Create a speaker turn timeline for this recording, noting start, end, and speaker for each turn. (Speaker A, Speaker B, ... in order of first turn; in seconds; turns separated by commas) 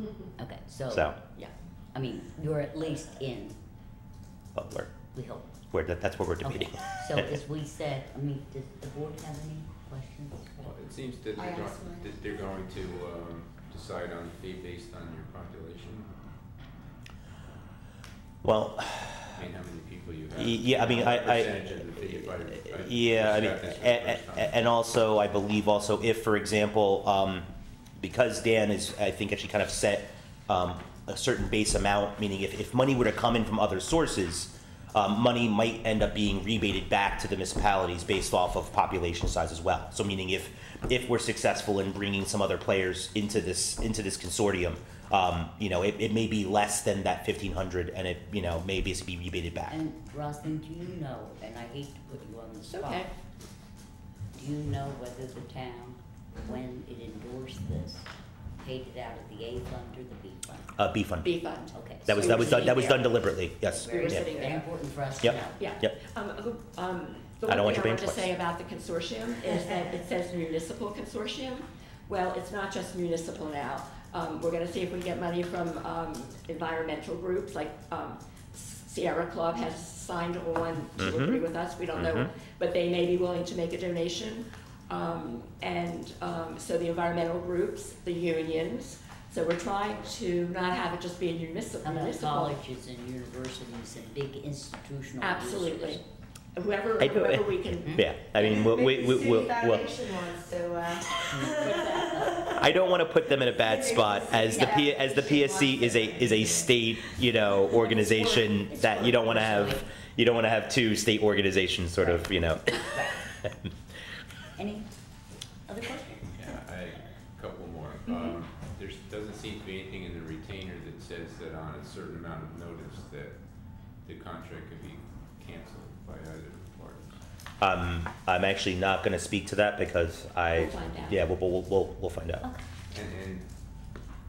Speaker A: 0.4-1.1, Speaker A: 1.9-3.6, Speaker B: 4.5-4.9, Speaker A: 4.7-5.6, Speaker B: 5.7-7.3, Speaker A: 6.4-10.8, Speaker C: 10.6-16.1, Speaker D: 11.3-12.1, Speaker B: 18.4-19.4, Speaker C: 19.4-24.6, Speaker B: 20.4-21.6, Speaker B: 22.8-49.8, Speaker A: 49.7-53.1, Speaker E: 52.7-53.1, Speaker A: 54.3-58.1, Speaker A: 58.6-60.8, Speaker B: 60.8-61.4, Speaker E: 61.2-63.1, Speaker A: 61.7-63.0, Speaker B: 62.1-64.3, Speaker A: 63.6-65.6, Speaker E: 63.8-64.7, Speaker B: 65.2-66.0, Speaker E: 65.6-92.6, Speaker B: 67.5-68.3, Speaker B: 81.0-81.4, Speaker B: 82.0-82.3, Speaker A: 91.8-96.0, Speaker E: 95.2-96.0, Speaker E: 96.6-98.0, Speaker B: 97.0-97.4, Speaker A: 97.8-98.1, Speaker B: 97.9-99.9, Speaker D: 98.4-102.8, Speaker A: 101.3-102.7, Speaker B: 102.5-113.5, Speaker D: 103.4-106.7, Speaker A: 107.7-109.9, Speaker A: 112.0-113.3, Speaker A: 114.6-115.0, Speaker A: 115.7-116.3, Speaker C: 116.3-123.3, Speaker C: 124.0-127.2, Speaker B: 127.6-132.5, Speaker E: 130.5-131.2, Speaker C: 132.9-133.5